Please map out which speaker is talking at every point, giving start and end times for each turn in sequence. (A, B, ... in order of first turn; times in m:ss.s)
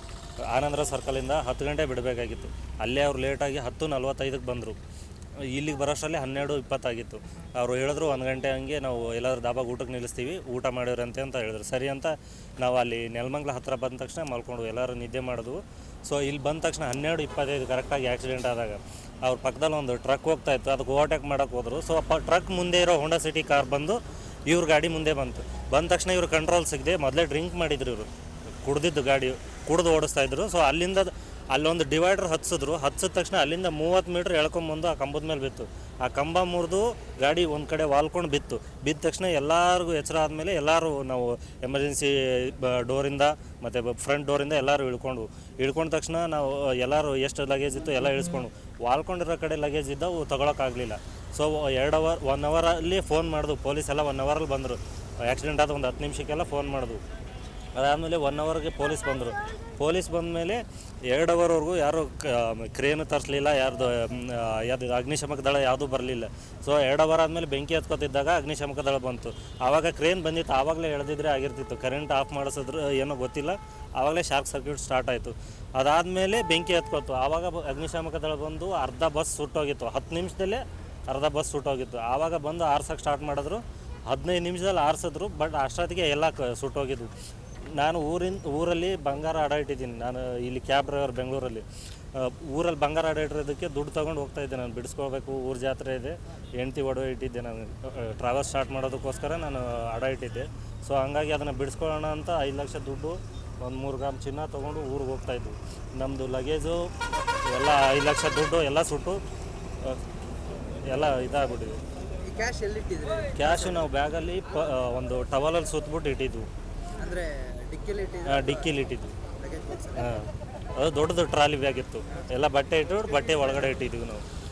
0:00.5-0:04.8 A
0:05.5-0:28.1 A
0:28.6-0:57.0 A
0:57.7-1:27.1 A
1:27.7-1:49.2 A
1:50.8-1:51.8 A
1:52.2-1:53.8 B
1:53.4-1:56.4 A
1:56.9-1:58.7 B
1:58.3-1:59.1 A
1:59.4-2:00.1 B
2:00.0-2:04.2 A